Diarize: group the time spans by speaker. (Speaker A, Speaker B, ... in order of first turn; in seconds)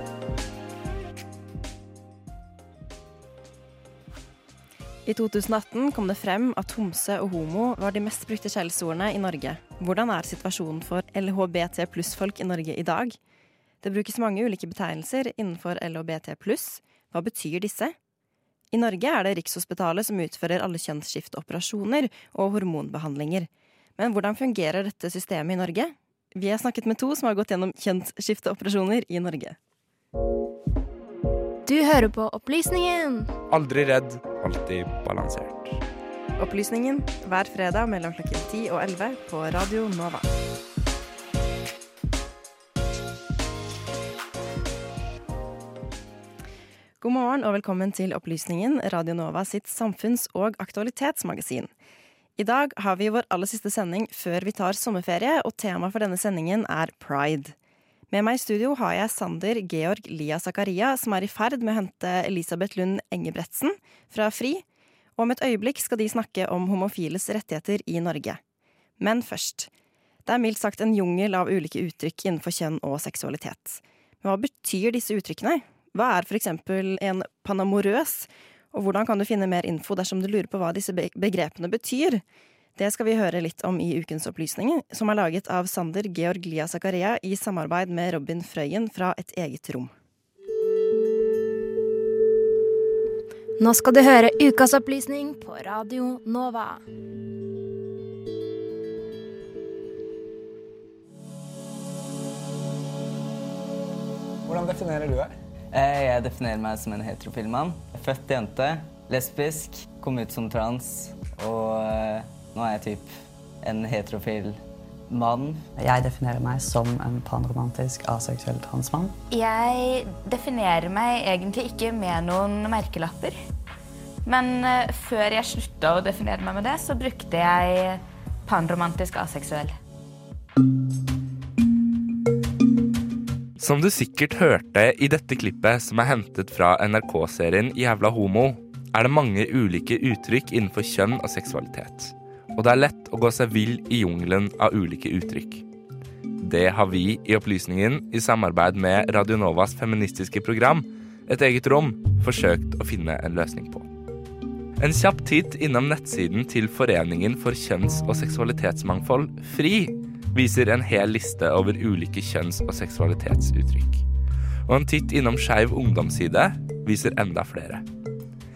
Speaker A: 5.1-13.2, 13.8-18.0, 18.7-29.6, 36.4-40.3, 47.0-51.7, 52.4-57.6, 58.1-64.6, 65.2-68.4, 69.0-69.7, 70.3-82.2, 82.8-89.9
Speaker B: 31.7-33.3, 93.6-96.8
Speaker C: 33.5-35.8, 133.6-145.6, 146.4-153.9, 154.8-164.0, 164.7-167.8
Speaker D: 104.5-113.1, 113.6-114.6, 115.1-115.7
Speaker E: 115.8-119.2
Speaker F: 119.3-123.4, 124.3-129.7